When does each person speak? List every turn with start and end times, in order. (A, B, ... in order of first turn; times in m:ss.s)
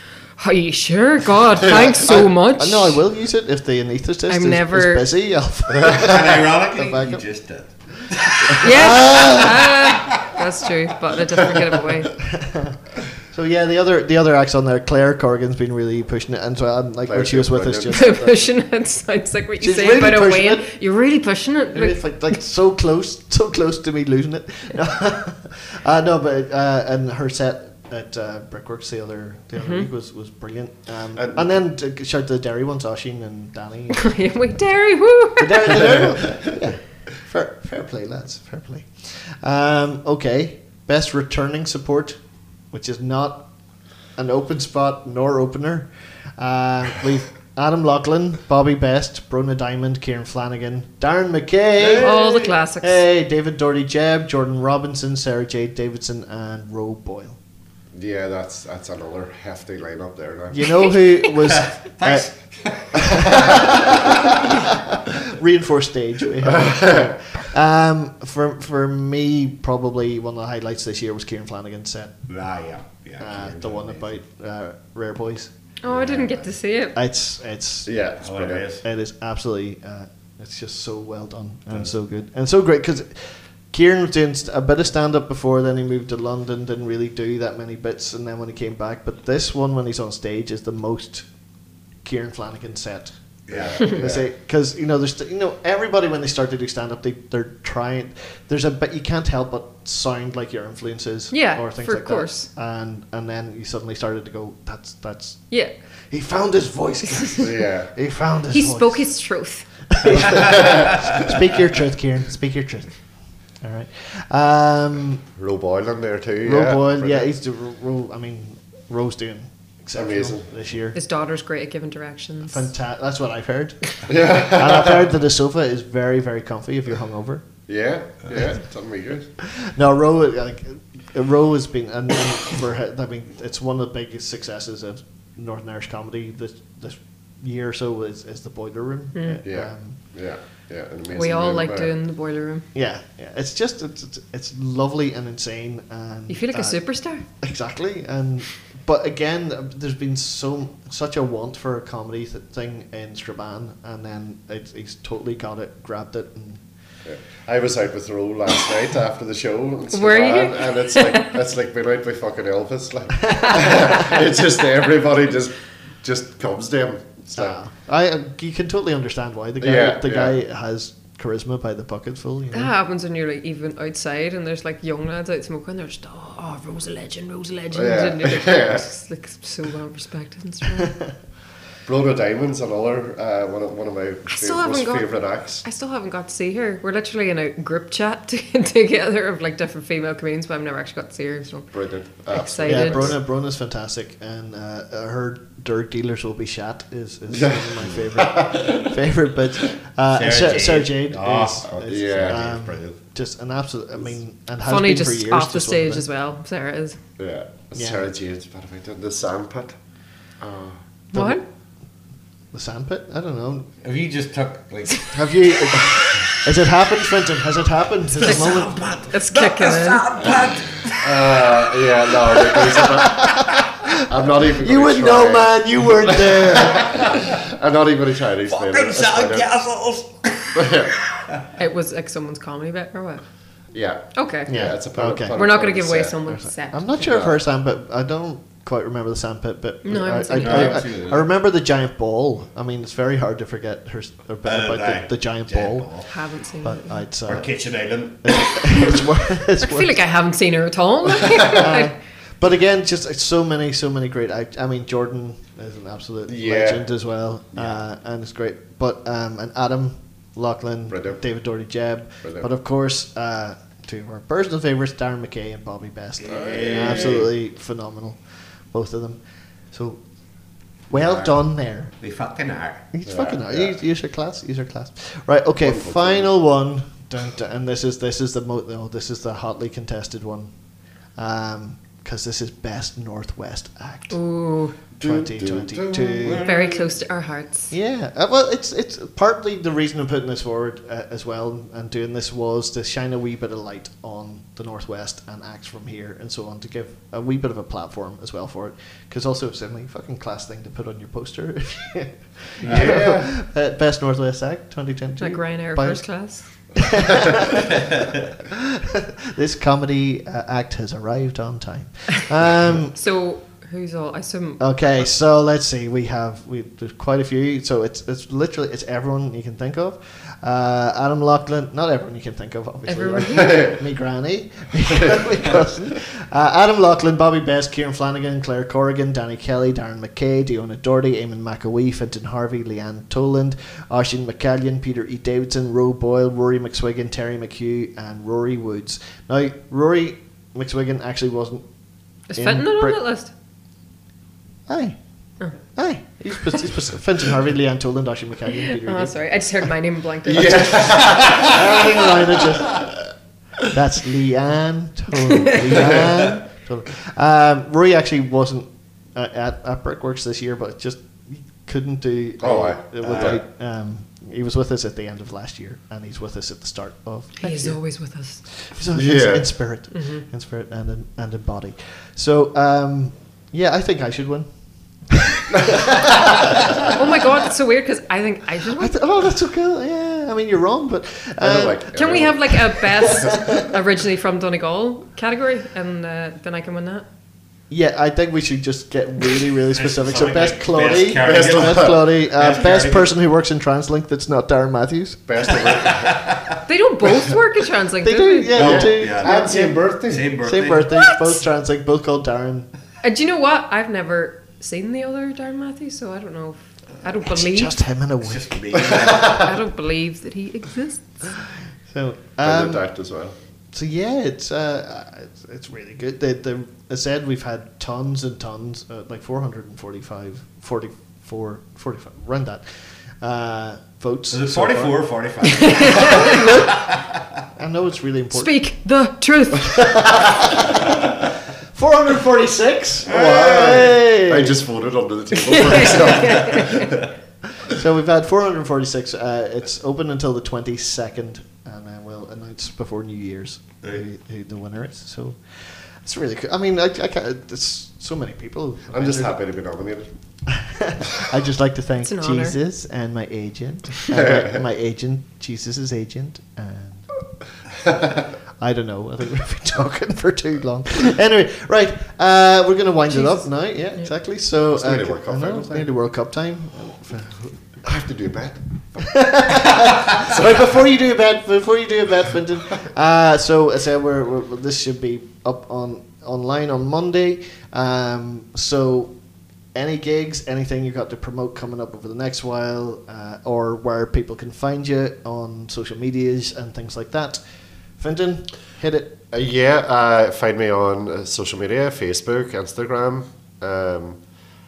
0:00.4-0:03.0 A
0:01.7-0:07.2 B
0:04.3-0:05.1 A
0:05.8-0:06.1 C
0:05.8-0:10.3 D
0:08.5-0:09.8 B
0:08.6-0:12.1 A
0:12.2-0:18.3 B
0:17.1-0:18.2 C
0:17.9-0:22.0 A
0:19.6-0:20.7 B
0:21.7-0:34.1 B
0:29.6-0:29.9 A
0:31.2-0:31.5 C
0:33.9-0:36.0 A
0:35.4-0:42.2 B
0:42.7-0:43.5 B
0:44.2-0:57.4 B
0:51.8-0:52.5 D
0:52.0-0:53.0 A
0:57.9-1:00.9 C
1:00.5-1:02.3 B
1:01.5-1:04.0 D
1:02.9-1:12.2 B
1:06.5-1:07.1 C
1:12.3-1:14.1 D
1:13.2-1:15.5 B
1:15.8-1:17.0 A
1:15.9-1:16.4 C
1:17.0-1:17.9 B
1:17.8-1:18.7 C
1:18.2-1:18.8 D
1:18.8-1:31.3 B
1:32.0-1:33.2 B
1:33.5-1:34.1 D
1:33.5-1:34.2 C
1:33.8-1:45.5 B
1:41.3-1:42.5 A
1:46.1-1:49.1 B
1:47.1-1:47.5 A
1:47.4-1:47.9 C
1:48.5-1:49.7 A
1:49.9-1:53.0 B
1:50.4-1:51.1 C
1:53.6-1:55.2 B
1:55.4-1:57.2 C
1:56.4-2:01.0 B
2:00.0-2:00.4 C
2:00.9-2:02.7 A
2:02.4-2:07.5 B
2:04.1-2:05.1 C
2:07.7-2:09.3 C
2:09.4-2:20.0 B
2:19.2-2:19.4 A
2:19.4-2:21.9 C
2:21.1-2:22.7 A
2:22.7-2:36.6 B
2:26.3-2:27.2 A
2:37.0-2:47.6 C
2:39.9-2:41.4 A
2:43.4-2:43.7 A
2:43.6-2:44.0 B
2:47.4-2:52.7 B
2:49.6-2:50.3 C
2:52.5-3:01.0 A
2:57.7-2:58.8 C
3:01.8-3:05.6 C
3:04.3-3:11.7 A
3:11.7-3:13.2 C
3:12.3-3:13.1 A
3:12.6-3:26.0 B
3:17.3-3:18.8 C
3:20.1-3:23.0 D
3:21.9-3:22.5 C
3:24.6-3:27.0 A
3:27.2-3:29.7 C
3:27.8-3:28.1 B
3:30.4-3:30.8 C
3:31.1-3:31.4 A
3:31.1-3:31.4 B
3:32.5-3:33.7 B
3:33.8-3:36.0 D
3:35.1-3:38.9 B
3:38.2-3:41.4 D
3:38.2-3:40.1 A
3:40.2-3:43.4 C
3:42.7-3:44.0 B
3:44.0-3:45.5 C
3:44.6-3:47.2 B
3:46.1-3:49.5 C
3:48.5-3:51.4 D
3:50.6-3:50.9 C
3:51.6-3:53.2 A
3:53.7-3:56.2 C
3:54.1-3:54.6 A
3:54.5-3:55.4 B
3:55.3-3:57.1 A
3:56.3-4:05.9 B
3:57.0-3:57.4 C
3:59.8-4:00.8 A
4:00.3-4:01.3 D
4:04.5-4:06.1 D
4:06.1-4:07.0 A
4:06.6-4:07.5 B
4:07.3-4:09.3 D
4:08.2-4:10.0 B
4:09.6-4:12.0 A
4:11.5-4:29.2 B
4:16.3-4:16.8 C
4:20.9-4:21.2 C
4:26.2-4:27.3 D
4:26.3-4:27.3 C
4:29.7-4:30.0 B
4:30.9-4:31.9 B
4:32.0-4:32.9 D
4:32.9-4:40.5 B
4:33.1-4:33.8 C
4:35.6-4:36.3 C
4:41.2-4:44.2 B
4:44.1-4:44.8 A
4:45.0-4:46.5 C
4:45.0-4:46.5 B
4:46.2-4:46.9 D
4:46.3-4:47.7 A
4:47.7-5:06.1 B
5:02.6-5:03.0 D
5:02.7-5:03.3 C
5:05.2-5:06.5 A
5:06.8-5:07.9 B
5:08.4-5:13.0 B
5:13.0-5:15.1 A
5:14.6-5:41.6 B
5:22.9-5:23.7 A
5:23.3-5:23.7 C
5:42.3-5:43.3 A
5:42.4-5:43.0 B
5:44.7-5:45.0 B
5:45.6-5:49.2 B
5:48.7-5:51.3 A
5:50.5-5:51.3 C
5:50.8-5:51.8 D
5:50.8-5:52.9 B
5:53.7-6:07.8 B
5:55.2-5:55.6 A
6:02.4-6:03.4 C
6:03.1-6:03.4 D
6:07.4-6:08.4 A
6:08.6-6:14.5 B
6:08.9-6:09.5 C
6:09.9-6:10.2 A
6:15.1-6:16.9 B
6:16.9-6:19.0 A
6:18.7-6:23.7 B
6:21.4-6:22.5 C
6:21.9-6:27.1 A
6:27.7-6:35.5 B
6:29.7-6:33.1 D
6:31.2-6:32.0 C
6:35.3-6:36.4 C
6:35.9-6:36.5 D
6:36.7-6:38.6 A
6:38.0-6:39.5 B
6:38.6-6:41.0 D
6:38.6-6:40.3 C
6:39.4-6:39.7 A
6:40.4-6:42.7 B
6:40.9-6:41.4 A
6:43.0-6:47.8 A
6:47.3-6:48.8 B
6:48.2-6:49.5 D
6:48.8-6:49.5 C
6:49.3-6:51.3 A
6:51.9-6:52.8 B
6:52.4-6:53.3 C
6:53.7-7:02.6 B
7:03.2-7:05.0 B
7:04.3-7:07.2 D
7:05.4-7:06.4 A
7:05.8-7:07.0 B
7:07.6-7:08.5 B
7:08.3-7:10.0 A
7:09.8-7:11.1 B
7:11.7-7:14.6 B
7:13.1-7:17.1 C
7:13.1-7:13.8 D
7:15.4-7:16.9 A
7:17.6-7:29.4 B
7:28.9-7:30.1 C
7:30.5-7:37.1 B
7:32.0-7:32.6 A
7:34.1-7:34.6 C
7:37.8-7:38.3 C
7:38.6-7:47.6 B
7:43.1-7:44.1 A
7:44.7-7:45.9 C
7:47.8-7:50.6 C
7:49.0-7:59.2 B
7:59.7-8:07.4 B
8:08.0-8:09.2 B
8:09.3-8:14.2 C